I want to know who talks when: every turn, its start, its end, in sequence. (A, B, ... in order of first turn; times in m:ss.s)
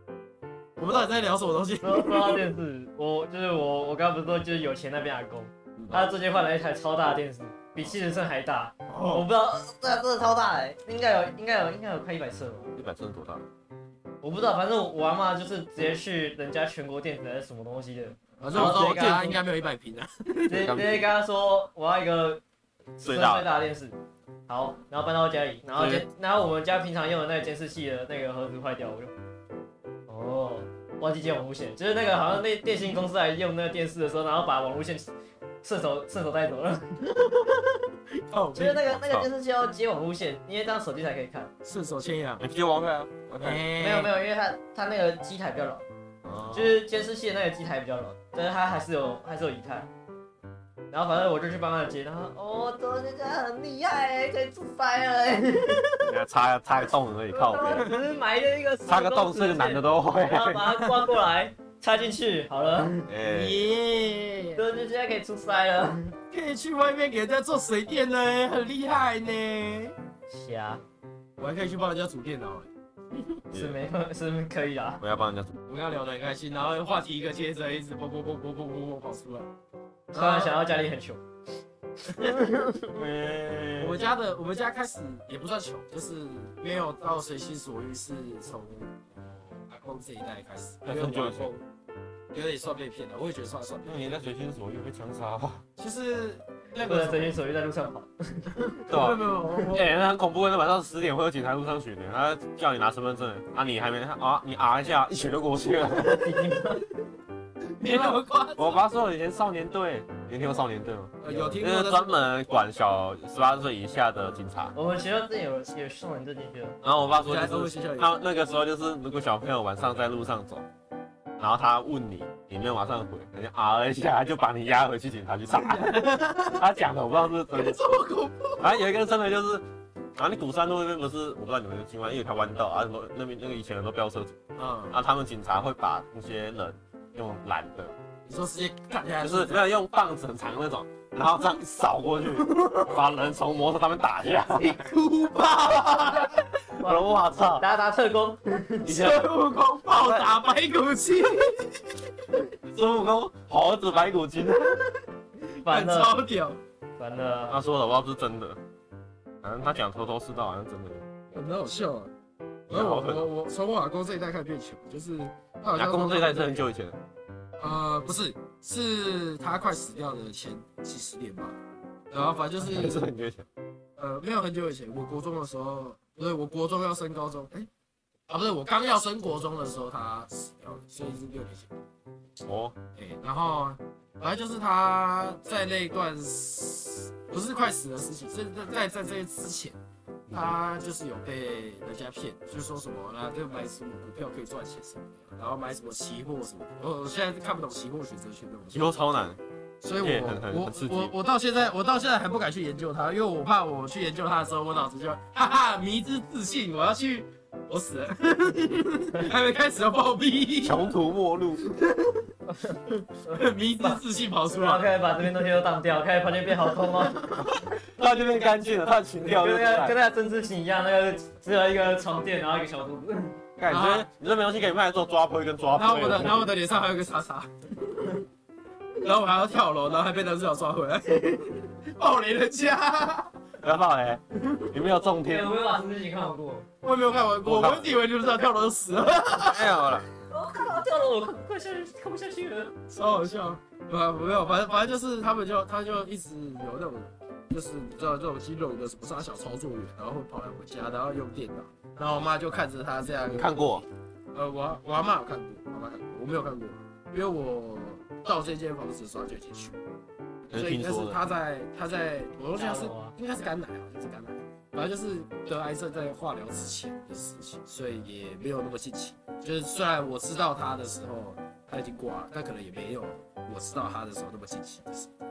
0:00.8-0:02.5 A
0:01.8-0:12.7 B
0:08.9-0:09.2 C
0:12.8-0:13.4 C
0:14.2-0:19.4 B
0:18.4-0:20.8 A
0:20.5-0:22.4 B
0:20.5-0:21.0 C
0:23.0-0:24.0 B
0:23.0-0:23.5 C
0:24.5-0:29.1 B
0:25.8-0:26.0 C
0:30.1-0:35.1 B
0:35.6-0:37.6 B
0:38.3-0:38.9 A
0:38.5-0:41.5 B
0:39.0-0:39.3 C
0:41.6-0:42.4 A
0:42.4-0:43.6 C
0:43.4-0:44.1 A
0:43.7-0:45.8 B
0:46.2-0:46.7 C
0:46.5-0:49.9 B
0:50.9-0:56.1 B
0:56.0-0:57.8 C
0:57.3-1:03.1 B
0:58.8-1:00.8 C
1:03.1-1:03.6 C
1:03.2-1:04.6 A
1:04.6-1:06.2 B
1:06.3-1:10.0 A
1:10.3-1:10.8 B
1:11.4-1:12.7 A
1:13.5-1:13.8 C
1:13.5-1:15.0 B
1:15.0-1:15.5 C
1:15.7-1:19.5 A
1:20.1-1:20.6 A
1:20.1-1:21.2 B
1:22.1-1:22.3 A
1:22.1-1:22.9 B
1:22.9-1:24.0 C
1:23.8-1:31.6 A
1:30.8-1:31.5 C
1:32.3-1:34.1 A
1:33.8-1:35.6 C
1:35.8-1:37.4 A
1:36.8-1:38.8 B
1:38.7-1:39.9 A
1:38.9-1:46.4 C
1:46.0-1:46.8 B
1:47.8-1:48.8 A
1:48.6-1:54.7 C
1:51.2-1:52.2 A
1:54.7-1:56.8 B
1:56.8-2:00.6 C
1:57.2-1:58.2 A
2:01.4-2:07.8 C
2:05.5-2:06.6 A
2:07.5-2:08.9 A
2:08.6-2:09.6 C
2:10.2-2:14.4 C
2:14.5-2:15.0 A
2:14.9-2:17.9 C
2:18.2-2:19.7 A
2:19.2-2:24.9 C
2:22.5-2:22.8 A
2:24.5-2:26.4 A
2:26.8-2:27.6 C
2:26.8-2:28.9 B
2:28.8-2:32.0 A
2:28.9-2:29.2 C
2:30.0-2:30.3 C
2:32.7-2:34.8 C
2:35.6-2:36.2 B
2:35.6-2:36.6 A
2:37.0-2:37.6 B
2:37.5-2:38.6 C
2:39.4-2:41.1 C
2:41.3-2:42.1 A
2:42.7-2:46.6 A
2:42.7-2:43.2 C
2:45.7-2:47.0 C
2:47.6-2:51.6 A
2:52.1-2:53.0 A
2:52.6-2:53.5 C
2:54.0-2:57.7 A
2:58.3-3:01.7 A
3:02.4-3:02.7 C
3:03.0-3:09.8 A
3:10.3-3:18.9 A
3:18.7-3:19.4 C
3:19.8-3:30.9 A
3:20.0-3:21.1 C
3:30.6-3:31.7 C
3:31.6-3:32.3 A
3:32.5-3:34.0 B
3:33.3-3:34.9 A
3:34.5-3:37.2 B
3:36.9-3:37.6 A
3:37.9-3:40.0 C
3:39.2-3:43.4 B
3:43.6-3:46.5 C
3:43.7-3:44.0 A
3:45.7-3:48.2 A
3:49.0-3:53.3 A
3:53.6-3:55.5 C
3:55.3-3:56.6 B
3:56.8-3:59.8 A
3:57.4-3:58.0 C
3:59.4-4:00.1 C
4:00.3-4:02.7 B
4:02.9-4:13.7 A
4:13.3-4:13.8 C
4:14.3-4:19.8 A
4:20.5-4:21.2 C
4:20.5-4:35.1 A
4:22.5-4:23.1 B